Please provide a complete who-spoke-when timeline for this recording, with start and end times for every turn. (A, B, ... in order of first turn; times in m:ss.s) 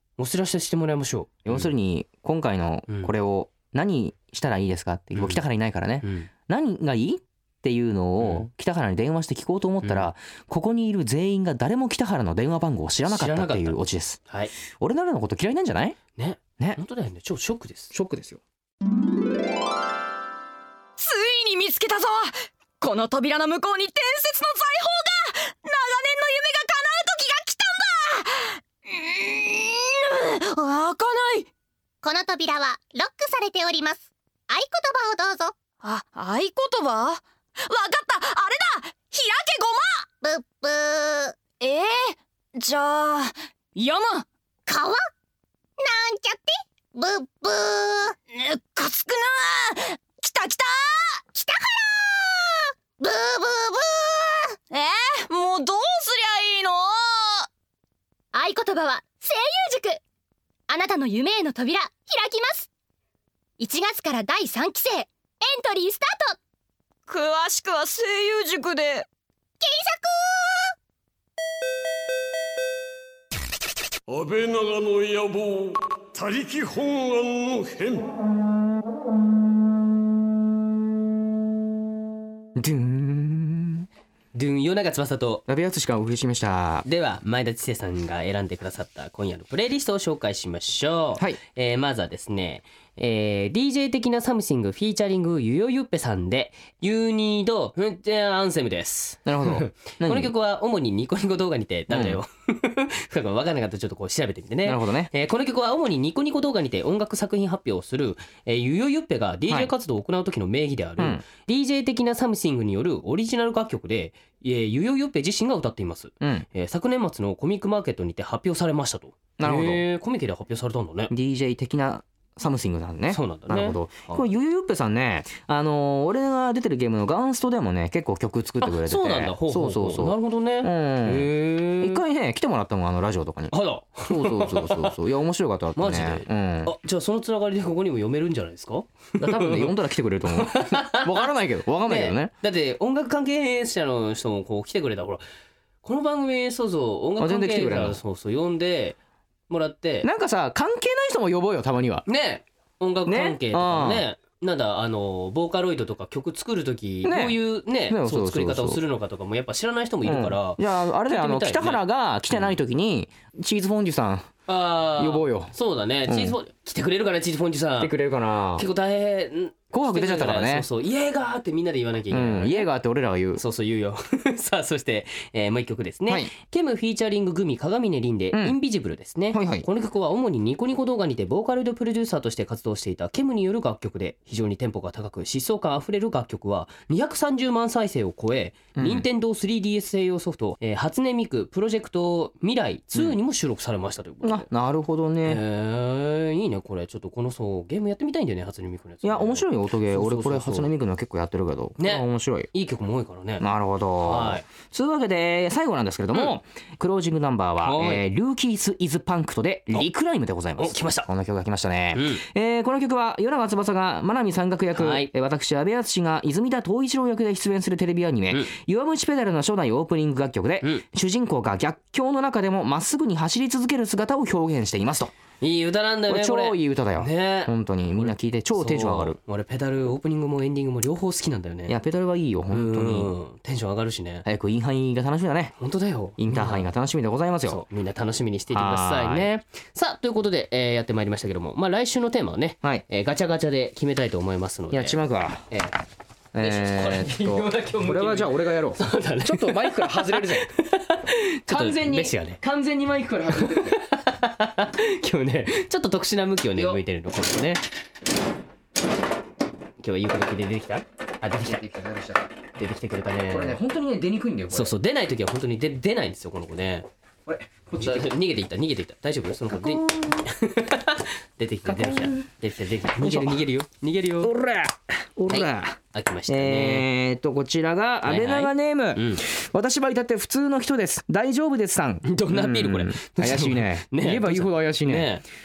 0:00.2-0:01.7 A
0:01.5-0:14.2 B
0:02.9-0:03.1 A
0:05.2-0:05.4 A
0:06.0-0:06.3 A
0:08.2-0:08.5 A
0:09.8-0:10.1 A
0:13.1-0:14.5 A
0:14.7-0:16.0 B
0:16.2-0:18.0 A
0:17.9-0:18.4 B
0:21.0-0:31.5 C
0:32.0-0:35.6 D
0:35.8-0:40.1 C
0:40.2-0:41.4 D
0:41.6-0:44.3 C
0:44.7-0:45.0 D
0:45.8-0:48.2 D
0:48.3-0:51.2 C
0:51.3-0:54.6 D
0:54.7-0:57.5 C
0:58.3-1:00.0 D
1:00.7-1:02.7 D
1:03.6-1:06.4 D
1:07.1-1:09.1 C
1:09.6-1:10.7 D
1:14.1-1:18.1 E
1:22.6-1:23.9 B
1:24.3-1:25.5 A
1:25.5-1:26.9 B
1:26.8-2:01.1 A
1:39.3-1:40.3 B
1:41.9-1:42.2 B
1:44.6-1:45.1 B
1:51.0-1:51.2 B
1:56.2-1:56.5 B
1:59.4-1:59.8 B
2:01.1-2:13.5 B
2:03.1-2:04.3 A
2:08.6-2:12.0 A
2:13.5-2:15.0 A
2:14.0-2:16.8 B
2:15.8-2:19.8 A
2:19.2-2:22.3 B
2:20.3-2:21.2 A
2:21.9-2:25.2 A
2:25.8-2:29.0 A
2:27.2-2:28.0 B
2:29.5-2:30.1 A
2:30.0-2:32.0 B
2:32.1-2:42.5 A
2:33.1-2:34.0 B
2:37.0-2:38.8 B
2:40.0-2:44.3 B
2:44.5-2:48.0 A
2:45.0-2:45.5 B
2:46.1-2:46.4 B
2:47.8-2:48.6 B
2:48.6-2:52.7 A
2:49.7-2:50.7 B
2:52.1-2:53.4 B
2:53.4-3:14.5 A
2:59.3-2:59.7 B
3:08.8-3:09.1 B
3:14.2-3:15.4 B
3:15.2-3:20.7 A
3:19.0-3:22.5 B
3:21.8-3:23.5 A
3:23.4-3:45.1 B
3:24.0-3:24.4 A
3:27.6-3:28.0 A
3:30.6-3:31.1 A
3:31.9-3:32.2 A
3:34.7-3:35.1 A
3:45.4-3:51.8 A
3:46.1-3:49.2 B
3:51.7-3:53.1 B
3:52.5-3:54.3 A
3:54.2-3:55.6 B
3:55.6-3:56.7 A
3:56.2-3:57.6 B
3:57.5-4:05.0 A
3:58.5-3:59.3 B
4:04.7-4:05.5 B
4:05.5-4:05.8 A
4:06.3-4:10.5 B
4:06.4-4:12.4 A
4:11.5-4:13.8 B
4:13.4-4:17.6 A
4:16.6-4:16.8 B
4:19.8-4:21.6 A
4:21.4-4:22.3 B
4:22.6-4:23.6 A
4:23.3-4:24.8 B
4:24.5-4:26.9 A
4:27.3-4:28.1 B
4:27.8-4:34.3 A
4:29.5-4:30.3 B
4:31.6-4:32.3 B
4:33.0-4:33.5 B
4:34.2-4:45.1 B
4:35.3-4:36.9 A
4:38.0-4:39.2 A
4:42.0-4:45.2 A